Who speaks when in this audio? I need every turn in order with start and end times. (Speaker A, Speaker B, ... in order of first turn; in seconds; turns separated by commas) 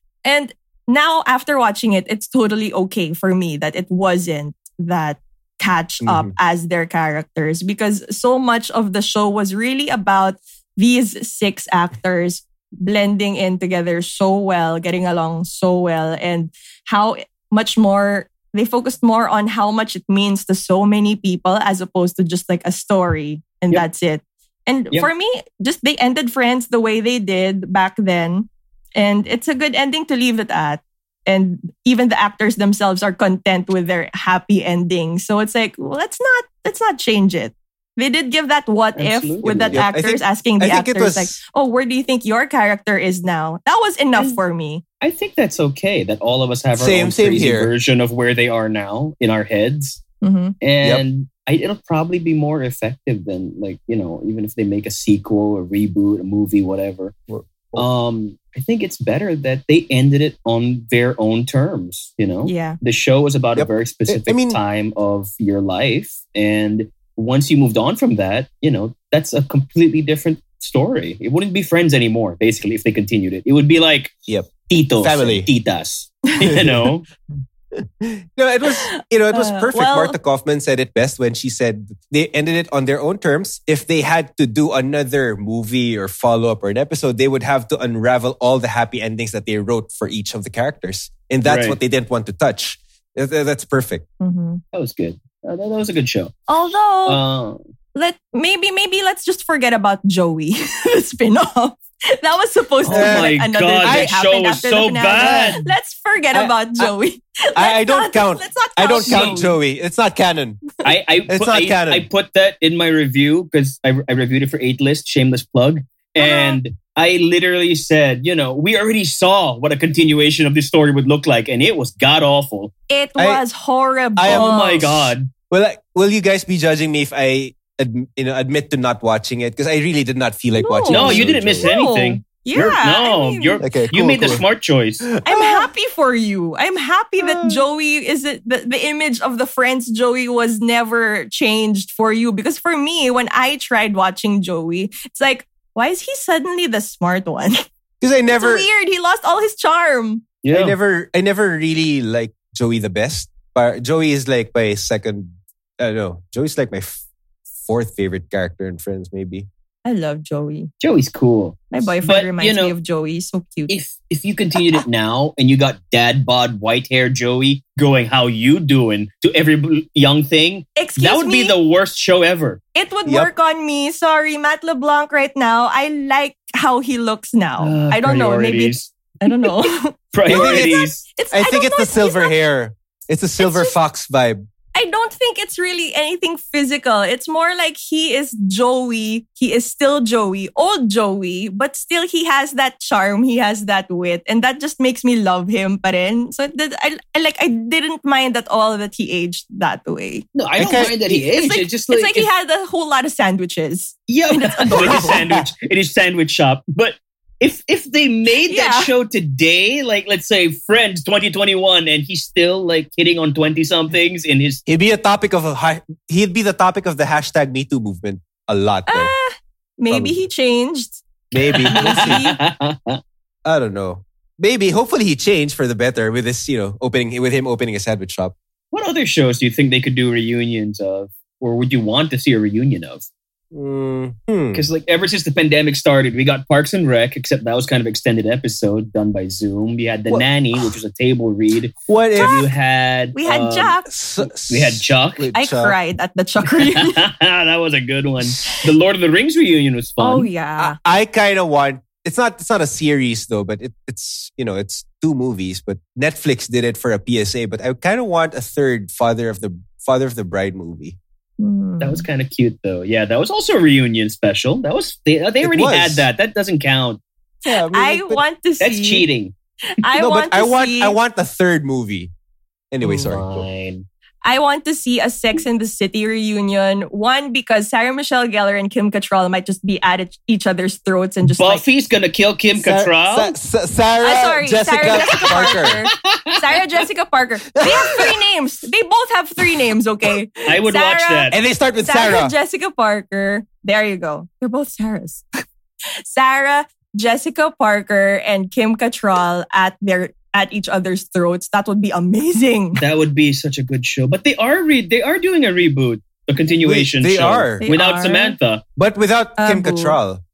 Speaker A: 0.2-44.8, Speaker B: 6.0-6.3, Speaker C: 39.0-39.8, Speaker B: 39.7-41.4, Speaker C: 45.0-50.0, Speaker B: 46.8-47.7, Speaker A: 50.2-50.5, Speaker C: 50.6-57.1, Speaker B: 57.3-57.9, Speaker C: 57.8-74.1, Speaker A: 62.5-62.8, Speaker B: 63.5-64.6, Speaker B: 74.3-75.5, Speaker C: 74.7-77.0, Speaker B: 76.4-76.9, Speaker B: 77.7-94.0, Speaker A: 78.7-80.2, Speaker C: 91.4-91.8, Speaker A: 94.2-94.6, Speaker C: 94.7-96.3, Speaker A: 96.5-97.2, Speaker C: 97.0-97.6, Speaker A: 97.9-109.6, Speaker C: 102.8-105.7, Speaker B: 102.9-104.1, Speaker B: 105.2-105.5, Speaker B: 106.3-106.9, Speaker B: 107.5-110.7, Speaker C: 109.0-109.5, Speaker C: 110.8-122.7, Speaker B: 111.3-112.1, Speaker A: 116.2-116.6, Speaker A: 122.9-125.0, Speaker B: 123.2-123.4, Speaker B: 124.2-131.7, Speaker C: 124.3-125.3, Speaker A: 130.6-133.6, Speaker C: 130.9-135.1, Speaker B: 133.6-134.4, Speaker B: 135.0-135.7, Speaker A: 135.2-147.6, Speaker B: 137.2-137.6, Speaker B: 148.0-148.7, Speaker A: 148.3-150.2, Speaker C: 150.4-150.8, Speaker B: 150.5-157.0, Speaker B: 157.7-159.5, Speaker A: 159.8-160.7, Speaker C: 160.8-162.7, Speaker A: 161.7-163.7, Speaker C: 163.7-172.6, Speaker A: 170.8-171.6, Speaker A: 172.7-182.4, Speaker B: 173.1-173.3, Speaker C: 177.6-179.5, Speaker C: 180.1-181.0, Speaker B: 180.3-184.4, Speaker A: 183.4-183.7, Speaker A: 184.7-200.3, Speaker C: 200.3-202.3, Speaker B: 200.6-200.9, Speaker A: 200.9-205.2, Speaker C: 204.1-214.6, Speaker B: 204.7-205.4, Speaker A: 208.5-208.9, Speaker B: 214.7-219.1, Speaker A: 218.9-221.0, Speaker B: 219.9-220.2, Speaker B: 221.3-222.3, Speaker C: 221.4-223.0, Speaker A: 221.6-222.4, Speaker B: 223.4-228.3, Speaker C: 228.7-233.1, Speaker B: 233.5-234.6, Speaker C: 234.5-245.3, Speaker B: 240.1-240.7, Speaker B: 241.9-242.4, Speaker A: 242.2-242.5, Speaker A: 243.1-243.9, Speaker B: 243.9-245.8, Speaker A: 245.3-247.0, Speaker C: 246.5-250.3, Speaker A: 250.0-250.8, Speaker B: 250.6-261.0, Speaker A: 261.4-262.0, Speaker C: 261.8-267.0, Speaker B: 265.4-266.1, Speaker B: 267.4-268.2, Speaker A: 267.4-269.1, Speaker C: 268.6-269.3, Speaker A: 269.8-270.9, Speaker B: 270.0-272.1, Speaker B: 272.7-273.4, Speaker C: 272.8-273.9, Speaker A: 274.2-281.6, Speaker C: 281.2-283.3, Speaker B: 282.6-285.8, Speaker A: 284.0-295.2, Speaker C: 285.9-286.4, Speaker B: 287.6-288.2, Speaker C: 290.4-291.4, Speaker B: 291.3-292.3, Speaker A: 296.1-302.8, Speaker C: 302.8-308.6, Speaker B: 306.6-307.6, Speaker A: 307.6-308.4, Speaker B: 308.8-310.2, Speaker A: 309.4-310.0